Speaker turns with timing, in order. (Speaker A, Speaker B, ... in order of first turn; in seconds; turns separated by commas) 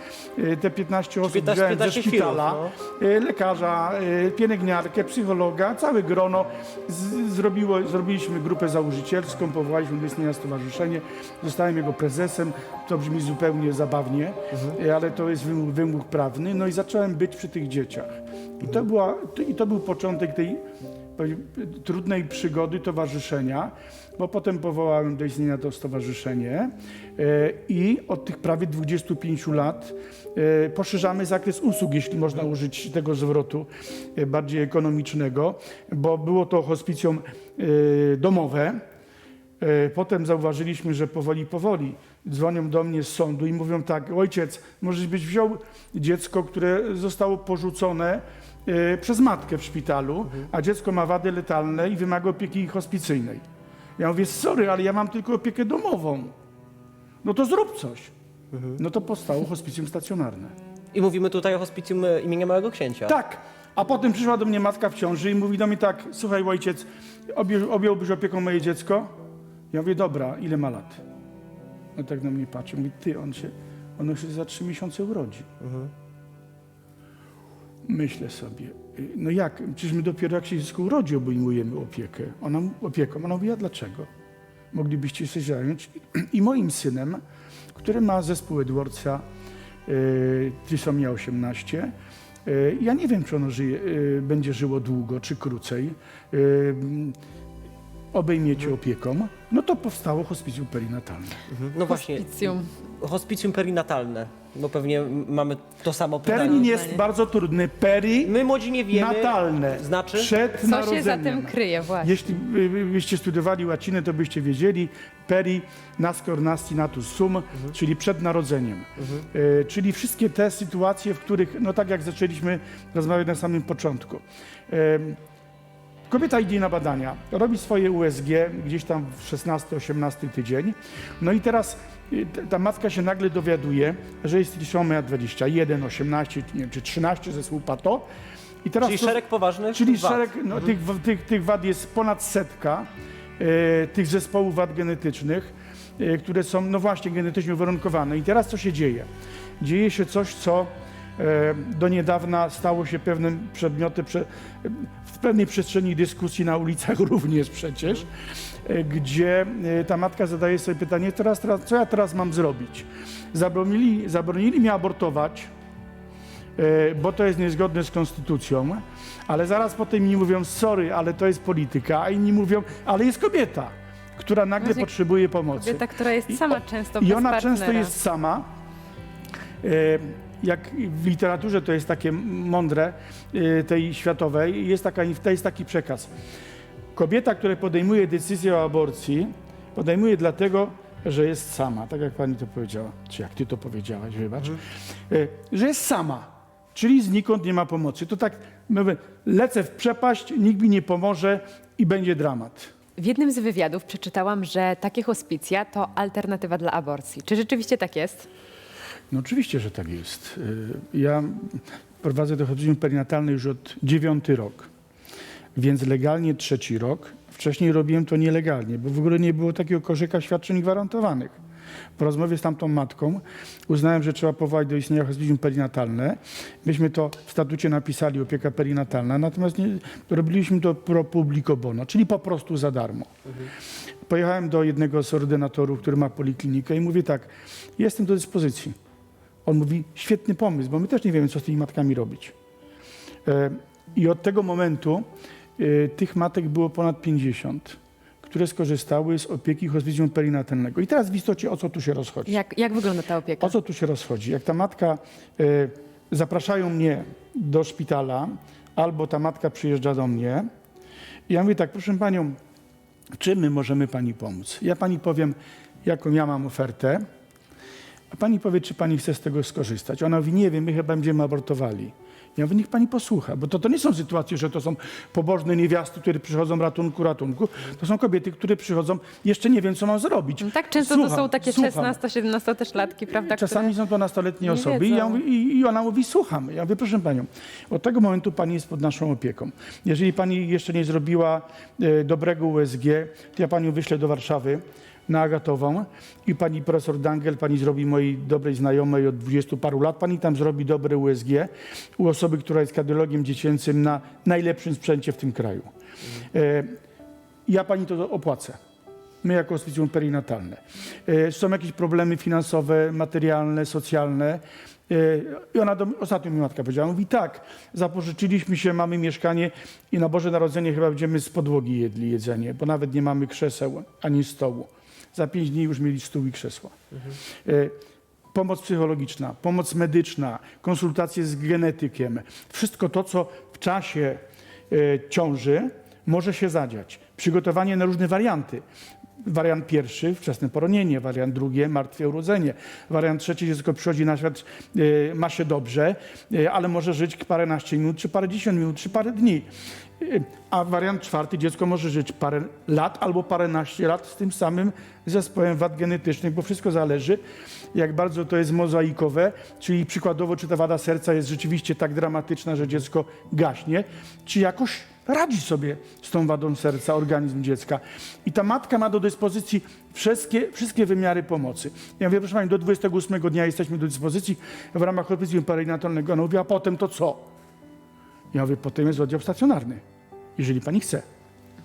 Speaker A: 0.4-20.6, Speaker B: 1.2-2.7, Speaker A: 21.2-38.8, Speaker A: 39.6-53.4, Speaker A: 54.0-56.3, Speaker A: 57.2-58.1, Speaker B: 58.5-58.8, Speaker A: 58.8-60.5, Speaker B: 60.9-63.1, Speaker A: 63.1-69.1, Speaker A: 69.7-71.0, Speaker A: 72.0-75.5, Speaker B: 75.6-75.9, Speaker A: 77.9-84.1, Speaker A: 84.7-87.2, Speaker A: 87.7-89.2, Speaker A: 89.9-91.9, Speaker A: 92.5-97.2, Speaker A: 98.1-101.5, Speaker B: 101.5-106.8, Speaker C: 101.9-102.7, Speaker A: 106.2-108.4, Speaker C: 106.6-107.0, Speaker B: 108.2-110.4, Speaker A: 108.9-125.2, Speaker C: 110.6-112.3, Speaker B: 119.0-119.2, Speaker A: 126.1-138.1, Speaker A: 138.6-139.2, Speaker B: 138.8-140.3, Speaker A: 139.7-149.1, Speaker A: 149.6-158.1, Speaker A: 158.6-165.5, Speaker A: 166.6-178.5, Speaker C: 174.6-174.9, Speaker C: 175.5-177.9, Speaker A: 179.6-186.1, Speaker A: 186.9-202.7, Speaker C: 203.0-208.3, Speaker A: 209.1-214.7, Speaker A: 215.6-221.4, Speaker A: 222.0-233.1, Speaker A: 234.1-238.8, Speaker A: 239.4-242.3, Speaker A: 243.2-245.1, Speaker A: 245.6-252.4, Speaker C: 252.3-253.6, Speaker A: 253.4-260.5, Speaker A: 261.3-262.4, Speaker A: 263.2-267.0, Speaker A: 268.1-282.0, Speaker C: 280.4-283.7, Speaker A: 283.2-305.7, Speaker C: 284.4-285.2, Speaker A: 306.2-306.8, Speaker A: 307.5-308.6, Speaker A: 309.2-326.8, Speaker A: 327.4-327.8, Speaker A: 328.3-338.6, Speaker A: 339.2-357.2, Speaker A: 357.7-377.3, Speaker A: 378.3-379.8, Speaker A: 380.4-381.1